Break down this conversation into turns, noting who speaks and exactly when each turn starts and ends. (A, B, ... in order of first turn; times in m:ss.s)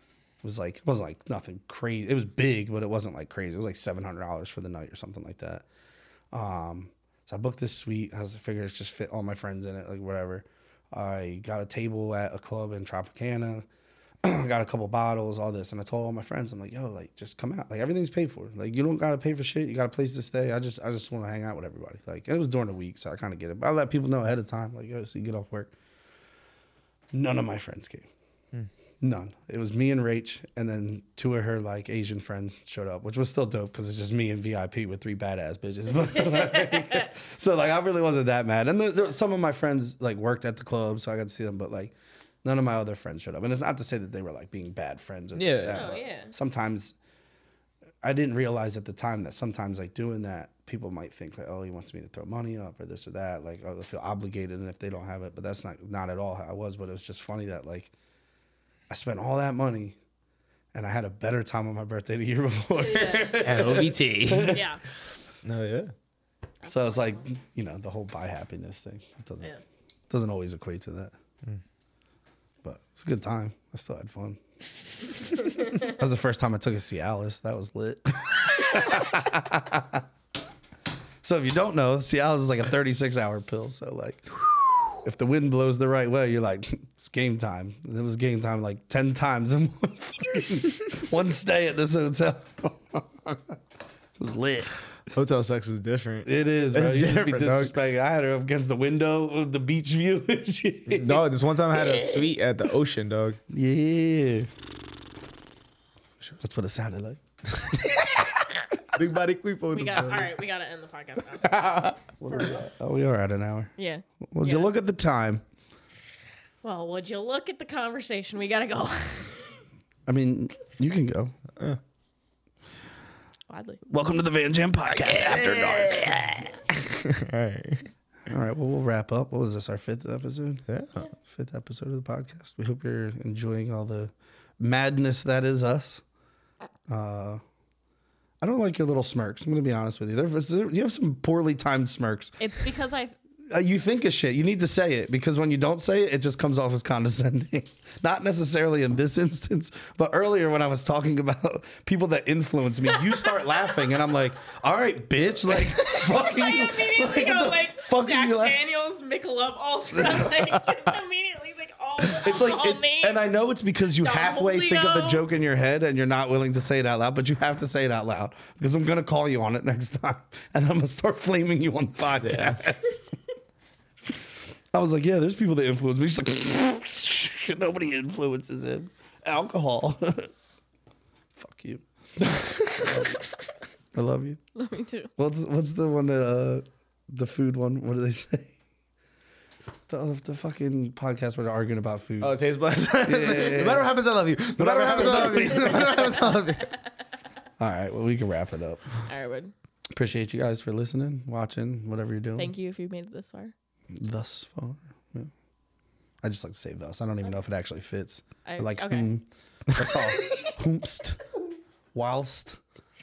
0:00.4-0:05.7 A
0:06.3-0:13.7 A
0:14.2-0:25.7 A
0:27.1-0:28.1 A
0:29.0-0:47.0 A
0:36.2-0:37.1 B
0:45.3-0:46.0 C
0:45.7-0:46.3 B
0:48.0-0:57.9 A
0:58.9-1:00.0 A
1:00.7-1:04.6 A
1:02.8-1:04.8 B
1:03.4-1:04.6 C
1:05.4-1:05.9 C
1:06.6-1:07.2 B
1:06.7-1:09.5 A
1:10.1-1:11.1 A
1:12.6-1:14.4 A
1:15.2-1:20.0 A
1:21.2-1:33.6 A
1:34.2-1:34.8 A
1:35.1-1:37.7 C
1:36.3-1:42.3 A
1:40.9-1:43.4 C
1:43.5-1:44.5 A
1:46.4-1:47.2 A
1:47.7-1:50.4 C
1:49.7-1:51.8 B
1:51.4-1:52.0 C
1:52.2-1:53.7 A
1:53.8-1:54.7 B
1:54.3-1:55.4 A
1:56.6-1:59.5 B
2:00.1-2:01.4 A
2:03.5-2:03.8 B
2:03.9-2:06.6 A
2:05.0-2:07.9 C
2:08.3-2:10.6 A
2:10.7-2:11.0 C
2:11.2-2:16.0 A
2:16.9-2:17.4 A
2:18.4-2:22.4 A
2:22.4-2:23.2 B
2:23.5-2:38.6 A
2:32.9-2:33.9 B
2:35.6-2:43.2 B
2:39.9-2:40.4 A
2:42.2-2:53.2 A
2:44.0-2:45.2 B
2:52.2-2:52.6 C
2:54.7-3:00.3 A
3:01.3-3:03.1 A
3:02.2-3:03.1 C
3:03.9-3:04.4 A
3:04.6-3:05.1 B
3:05.2-3:08.6 A
3:09.9-3:14.0 A
3:12.2-3:16.8 C
3:14.5-3:16.3 A
3:17.6-3:18.9 A
3:19.0-3:19.5 B
3:19.9-3:22.5 A
3:22.4-3:23.5 B
3:23.9-3:25.3 A
3:26.2-3:31.3 A
3:28.4-3:29.1 B
3:31.9-3:32.6 A